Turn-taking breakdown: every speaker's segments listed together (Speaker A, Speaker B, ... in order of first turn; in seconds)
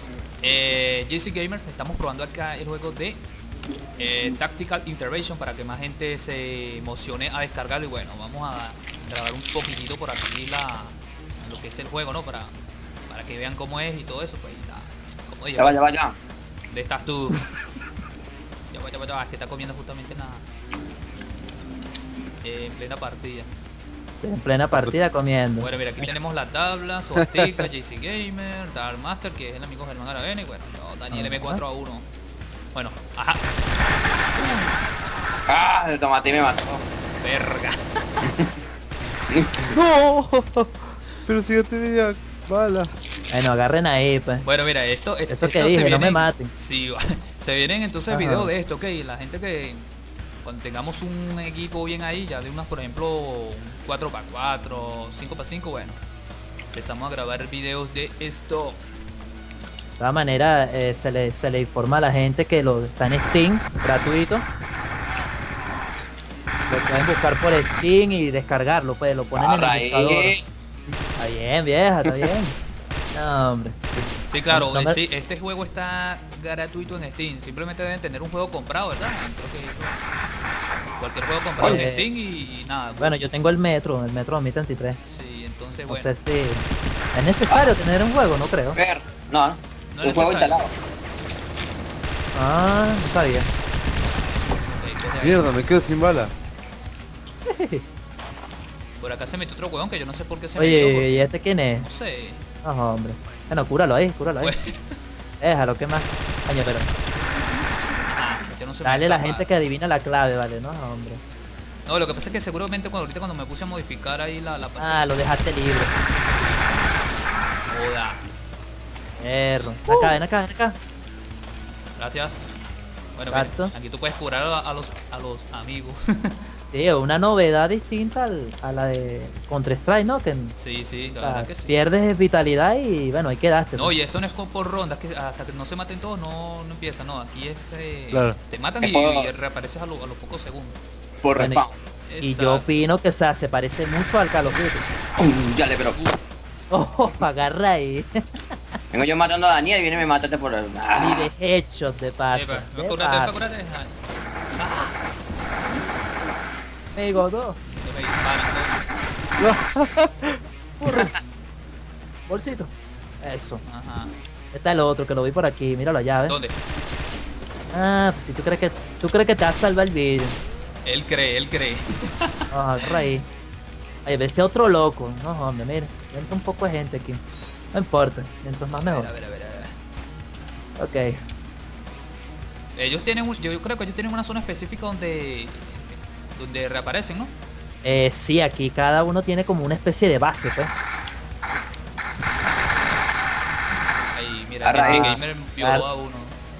Speaker A: 0.4-3.2, 4.0-12.5, 13.1-15.8, 16.7-17.4, 18.7-20.4, 22.4-23.5, 25.6-32.1, 32.7-33.4, 34.4-34.7, 37.2-38.2, 44.4-49.9, 50.4-56.0, 56.7-58.8, 74.3-80.0, 81.0-83.1, 85.0-86.1, 89.9-90.6, 94.6-96.0, 99.0-102.4, 104.4-104.9, 108.1-109.5, 111.8-115.1, 117.7-118.3, 119.9-120.1, 122.0-122.5, 123.1-126.3, 130.5-131.8, 133.8-141.0, 142.0-142.8, 145.9-146.2, 152.3-153.9, 154.6-155.0, 157.8-158.9, 163.6-164.1, 166.3-166.5, 170.8-172.9, 178.7-179.8, 182.7-187.3, 194.1-196.3
Speaker B: 15.6-16.1, 35.5-36.8, 39.3-39.7, 69.3-70.4, 87.5-87.7, 88.7-90.7, 138.8-139.3, 141.2-141.7, 145.2-146.0, 148.9-151.3, 160.8-161.2, 194.6-195.1
Speaker C: 24.2-25.7, 31.1-31.6, 43.3-44.5, 45.3-46.5, 48.1-48.5, 60.0-64.4, 66.7-70.3, 71.2-72.5, 73.1-73.8, 74.5-75.0, 81.6-82.0, 83.0-85.0, 85.9-88.8, 92.3-93.5, 97.5-97.8, 100.6-101.9, 102.6-104.5, 105.4-106.9, 108.8-111.2, 114.8-115.9, 119.2-120.8, 123.3-123.7, 126.7-130.5, 131.2-133.9, 141.3-141.6, 142.2-144.8, 146.7-148.1, 150.9-153.3, 156.9-157.6, 160.8-161.1, 162.3-163.6, 164.5-166.4, 167.7-170.4, 172.5-173.2, 174.0-177.2, 177.7-179.1, 180.8-181.1, 187.8-190.7, 194.8-195.8
Speaker D: 27.2-27.4, 39.7-40.7, 41.3-42.9, 95.2-96.3, 138.1-138.4, 159.4-160.4